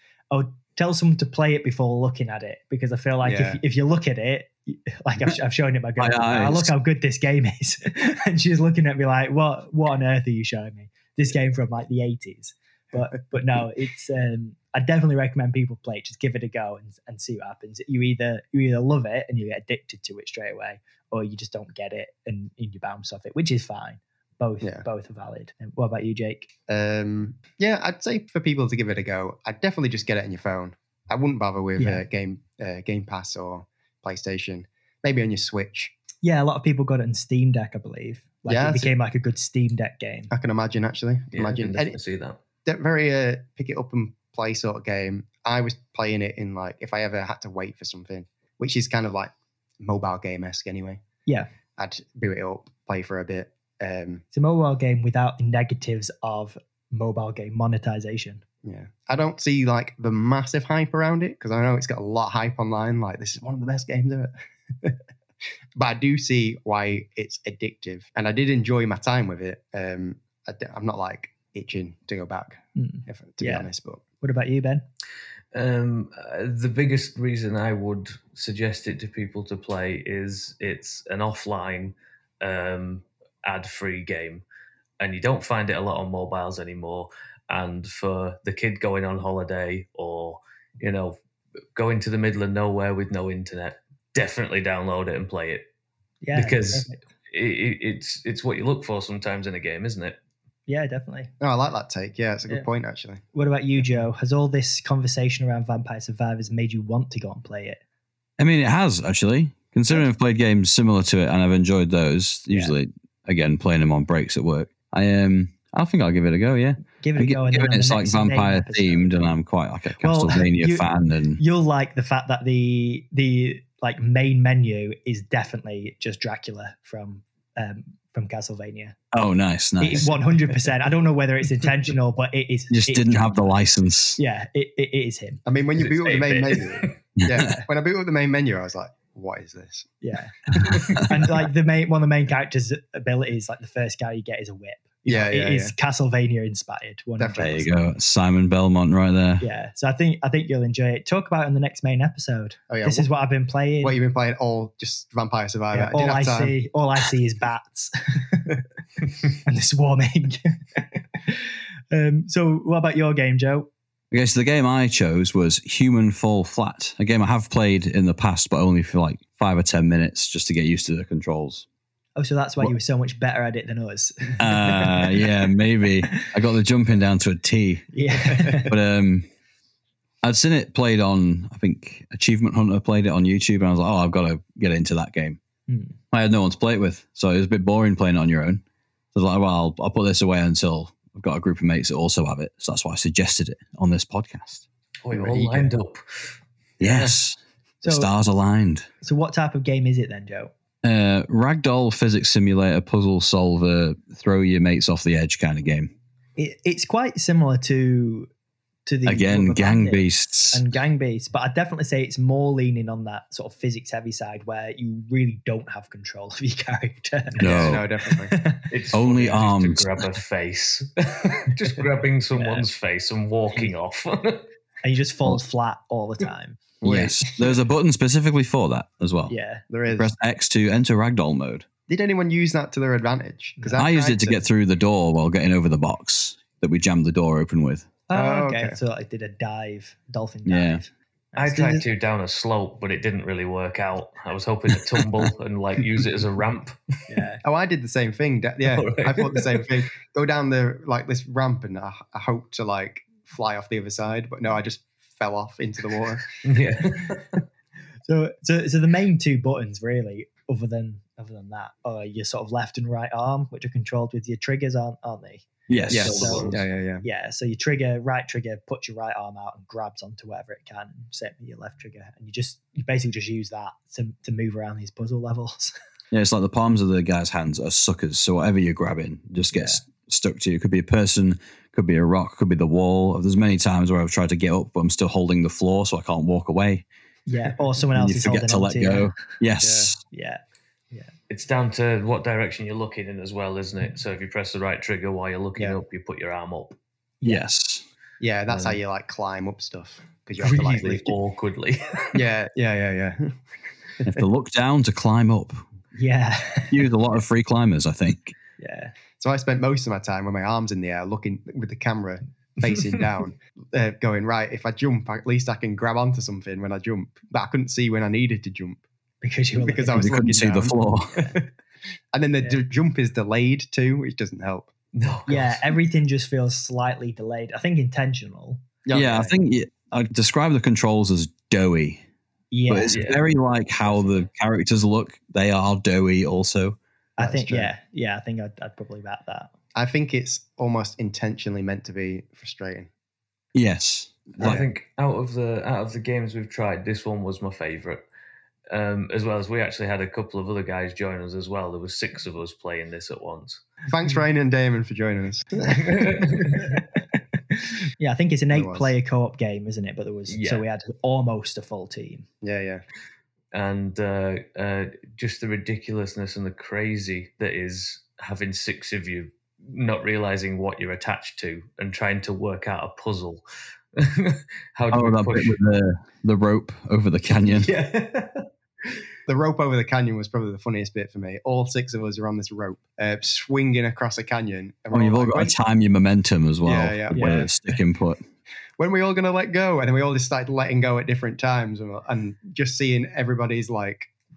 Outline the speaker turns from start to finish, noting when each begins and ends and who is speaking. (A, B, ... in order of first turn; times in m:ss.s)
0:00.3-0:26.5 A
0:03.2-0:03.6 B
0:06.0-0:06.7 C
0:24.6-0:24.8 B
0:26.7-0:35.9 B
0:31.8-0:32.0 A
0:36.2-0:40.3 A
0:38.5-0:38.9 B
0:40.3-0:42.0 B
0:41.3-0:42.4 D
0:42.6-0:51.0 B
0:51.8-0:54.2 B
0:54.3-0:58.4 A
0:58.6-1:05.0 B
1:05.8-1:14.0 B
1:12.8-1:14.8 A
1:15.5-1:24.4 D
1:25.0-1:31.2 D
1:31.7-1:35.6 D
1:36.2-1:37.0 A
1:36.3-1:40.2 D
1:40.7-1:41.3 A
1:41.4-1:43.2 B
1:43.3-1:47.8 A
1:48.4-2:01.4 C
1:57.0-1:59.2 A
2:00.0-2:09.0 A
2:09.1-2:10.3 C
2:09.8-2:13.6 A
2:12.7-2:14.2 C
2:14.2-2:15.4 A
2:15.4-2:19.9 B
2:15.8-2:16.9 D
2:17.2-2:17.5 C
2:17.4-2:17.6 A
2:20.0-2:27.7 A
2:20.6-2:21.0 C
2:25.1-2:25.7 B
2:27.2-2:27.6 B
2:27.4-2:29.4 C
2:29.4-2:34.0 A
2:32.7-2:33.0 B
2:33.8-2:36.6 B
2:35.7-2:38.6 A
2:39.4-2:43.7 A
2:44.1-2:51.6 C
2:52.2-2:55.4 A
2:54.4-2:59.3 C
2:57.9-2:58.7 A
3:00.2-3:05.4 C
3:05.7-3:06.0 A
3:06.1-3:08.6 C
3:09.1-3:14.6 C
3:15.0-3:16.3 D
3:15.1-3:15.7 B
3:16.8-3:17.2 B
3:16.8-3:18.9 C
3:17.8-3:18.1 A
3:19.0-3:20.5 A
3:20.8-3:25.9 C
3:26.4-3:28.3 A
3:28.9-3:38.6 A
3:29.0-3:30.6 C
3:37.4-3:37.8 D
3:37.4-3:37.8 C
3:37.6-3:38.4 B
3:38.7-3:44.4 D
3:38.9-3:39.9 C
3:42.3-3:42.7 A
3:44.8-3:46.6 A
3:46.8-3:47.3 B
3:46.8-3:49.3 C
3:49.3-3:49.6 A
3:49.7-3:50.1 B
3:49.9-3:51.7 C
3:51.9-3:54.4 B
3:53.8-3:57.9 C
3:58.1-4:01.8 A
3:58.1-3:58.8 B
4:00.4-4:00.8 C
4:01.4-4:06.8 D
4:07.1-4:07.4 A
4:07.4-4:16.3 B
4:08.6-4:09.8 D
4:16.4-4:17.4 D
4:18.0-4:35.7 A
4:25.7-4:26.5 C
4:25.9-4:27.0 B
4:25.9-4:26.5 D
4:36.1-4:46.8 C
4:39.5-4:39.8 A
4:47.2-4:49.1 A
4:47.9-4:50.0 C
4:49.6-4:49.9 B
4:50.1-4:50.4 A
4:51.3-4:56.8 D
4:57.2-4:57.5 A
4:57.2-4:57.8 C
4:58.2-5:01.1 B
4:58.5-4:58.8 D
5:00.4-5:02.2 D
5:02.1-5:03.4 B
5:04.0-5:05.6 C
5:05.9-5:06.8 A
5:06.7-5:08.3 C
5:08.6-5:08.9 A
5:09.2-5:18.8 B
5:19.2-5:20.2 A
5:19.6-5:21.5 B
5:19.9-5:21.3 C
5:22.1-5:24.7 B
5:24.9-5:25.7 D
5:25.3-5:28.6 A
5:28.8-5:29.3 B
5:28.9-5:32.0 C
5:32.5-5:33.1 A
5:32.7-5:36.8 C
5:32.9-5:33.2 D
5:33.9-5:34.2 A
5:37.2-5:39.5 A
5:37.2-5:37.7 B
5:39.7-5:42.9 B
5:43.5-5:44.6 C
5:44.4-5:44.6 B
5:44.4-5:48.0 D
5:48.7-5:53.6 D
5:53.9-5:56.1 B
5:55.6-5:56.8 D
5:57.5-6:02.2 A
5:58.5-5:58.9 B
6:00.3-6:00.6 D
6:02.4-6:02.8 B
6:03.5-6:13.4 D
6:14.0-6:15.6 D
6:14.9-6:17.7 C
6:17.5-6:18.5 D
6:19.2-6:25.5 B
6:24.9-6:28.2 C
6:26.6-6:27.4 B
6:27.1-6:27.5 A
6:28.8-6:34.1 B